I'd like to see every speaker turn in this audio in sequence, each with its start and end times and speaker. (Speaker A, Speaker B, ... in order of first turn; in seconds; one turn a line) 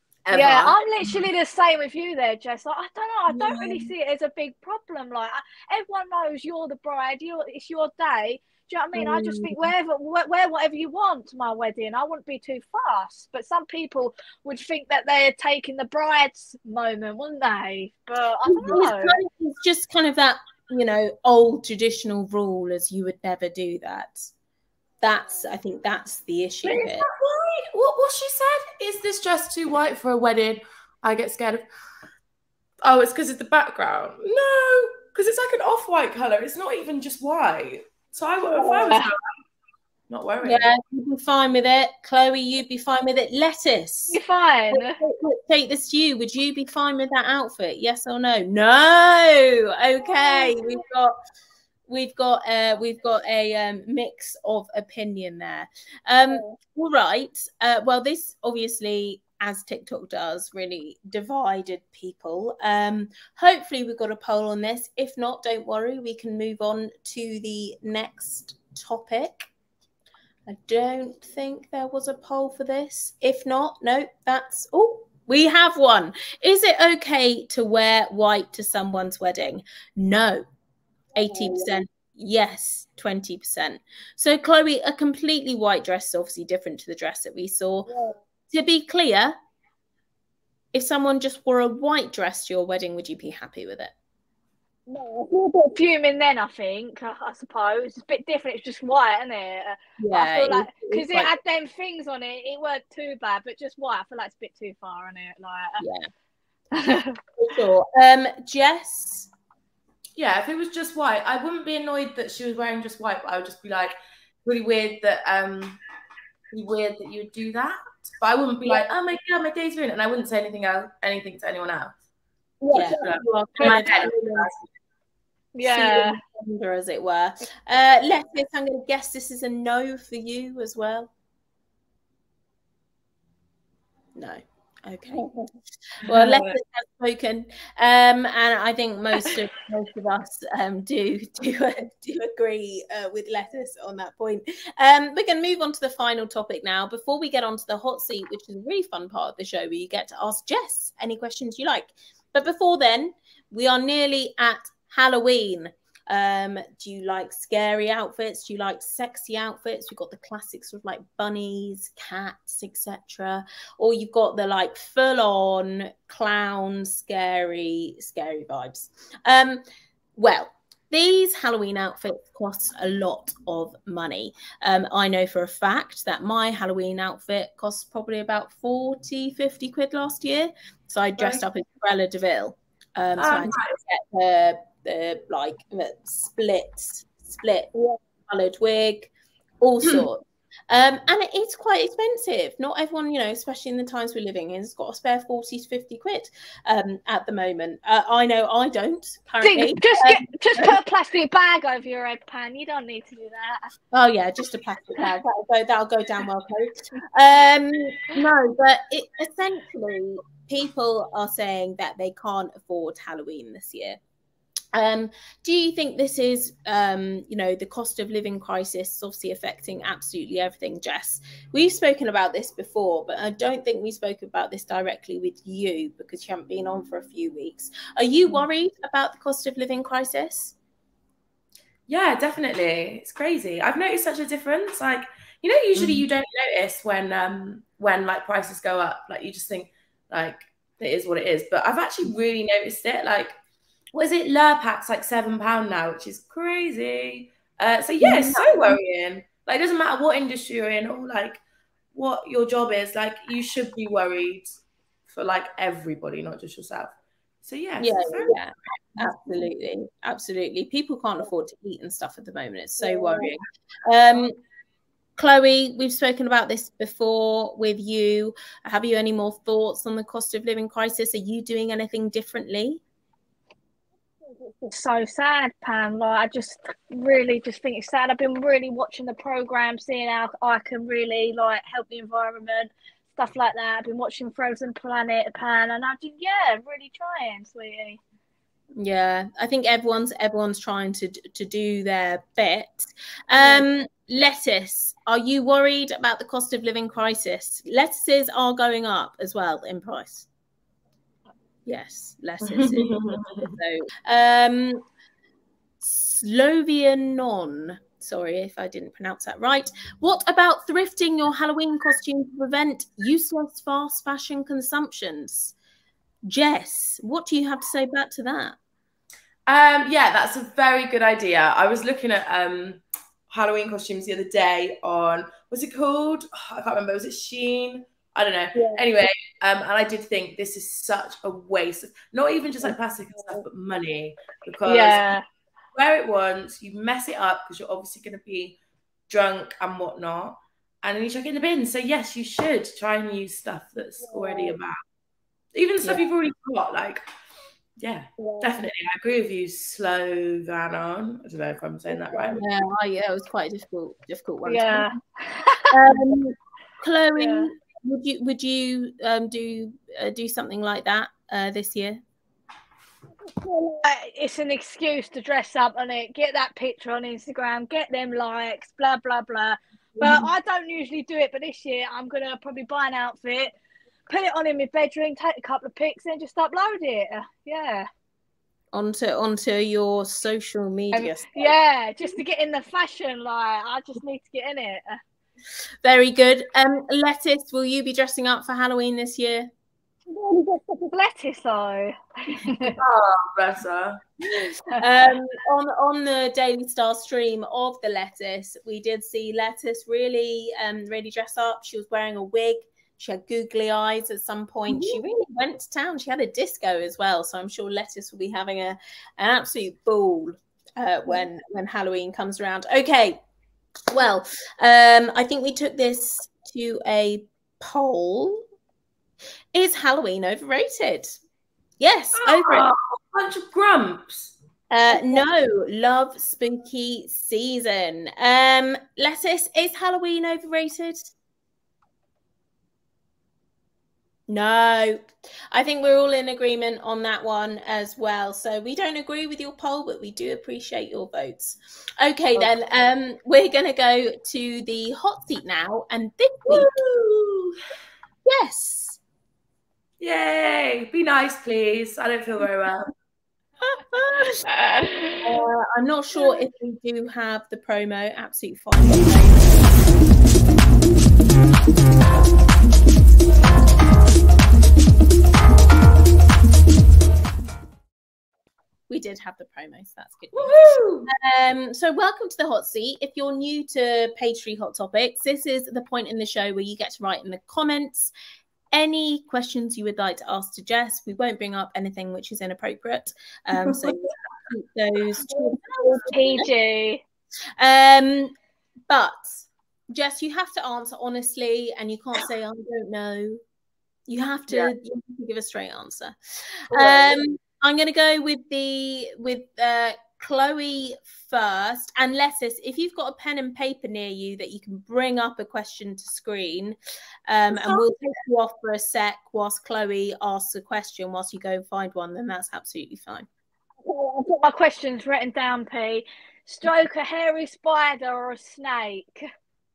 Speaker A: 0.2-1.1
Speaker B: 0.3-19.2
Speaker C: 3.3-3.9
Speaker C: 8.9-9.7
Speaker C: 18.5-24.3
Speaker C: 25.0-27.1
Speaker A: 26.6-31.6
Speaker A: 32.8-39.2
Speaker B: 38.5-39.1
Speaker A: 40.1-40.7
Speaker C: 40.4-44.2
Speaker B: 44.1-45.0
Speaker C: 44.7-51.1
Speaker B: 50.2-50.7
Speaker C: 51.9-69.5
Speaker C: 70.5-80.4
Speaker C: 81.1-87.9
Speaker B: 81.3-81.6
Speaker B: 87.9-88.1
Speaker C: 88.5-89.3
Speaker C: 90.7-93.9
Speaker B: 94.9-105.8
Speaker C: 100.0-101.3
Speaker C: 105.8-106.1
Speaker B: 106.7-107.2
Speaker C: 107.4-109.3
Speaker A: 110.2-115.8
Speaker A: 116.5-122.0
Speaker B: 122.6-123.0
Speaker C: 122.7-124.5
Speaker A: 122.7-124.6
Speaker B: 125.5-126.2
Speaker C: 125.6-131.1
Speaker C: 134.1-135.3
Speaker C: 136.0-169.6
Speaker A: 136.0-136.6
Speaker C: 170.2-187.7
Speaker A: 181.2-181.4
Speaker A: 183.2-183.8
Speaker C: 188.3-200.8
Speaker B: 199.4-203.7
Speaker C: 203.9-214.0
Speaker C: 214.7-230.6
Speaker A: 231.9-243.3
Speaker C: 235.7-236.1
Speaker A: 243.9-251.4
Speaker C: 248.0-248.8
Speaker A: 251.9-258.4
Speaker C: 257.8-264.4
Speaker B: 262.8-263.2
Speaker C: 265.2-272.8
Speaker B: 274.4-288.0
Speaker C: 288.8-300.3
Speaker B: 293.4-293.6
Speaker C: 301.6-304.8
Speaker A: 302.4-303.5
Speaker C: 305.8-315.5
Speaker C: 316.2-318.6
Speaker A: 319.5-335.1
Speaker B: 328.5-328.8
Speaker B: 334.6-335.2
Speaker A: 335.7-338.6
Speaker A: 339.1-344.8
Speaker B: 344.0-344.5
Speaker A: 345.5-347.0
Speaker A: 347.8-352.4
Speaker B: 348.2-348.6
Speaker B: 351.9-352.4
Speaker C: 352.4-354.9
Speaker B: 354.4-355.7
Speaker C: 355.7-362.0
Speaker B: 357.1-357.5
Speaker B: 363.2-373.5
Speaker C: 370.0-370.3
Speaker B: 374.1-377.9
Speaker C: 378.7-381.5
Speaker B: 380.9-385.0
Speaker C: 385.8-389.5
Speaker B: 390.1-392.8
Speaker A: 392.8-394.0
Speaker B: 394.3-394.8
Speaker C: 394.7-413.2
Speaker B: 404.7-405.0
Speaker C: 413.9-418.4
Speaker C: 419.5-421.2
Speaker C: 421.8-422.7
Speaker A: 422.1-424.3
Speaker C: 424.7-431.1
Speaker B: 424.9-425.2
Speaker C: 434.3-446.7
Speaker A: 446.5-447.6
Speaker C: 448.2-449.0
Speaker A: 450.0-452.9
Speaker C: 453.6-454.4
Speaker B: 454.4-455.4
Speaker C: 455.2-459.7
Speaker C: 468.9-478.1
Speaker A: 470.3-471.1
Speaker C: 478.7-486.5
Speaker A: 483.6-484.0
Speaker B: 486.1-487.0
Speaker C: 487.6-488.3
Speaker C: 488.9-493.4
Speaker C: 494.1-506.8
Speaker B: 496.7-497.1
Speaker C: 507.3-513.3
Speaker B: 507.6-507.8
Speaker B: 513.8-519.3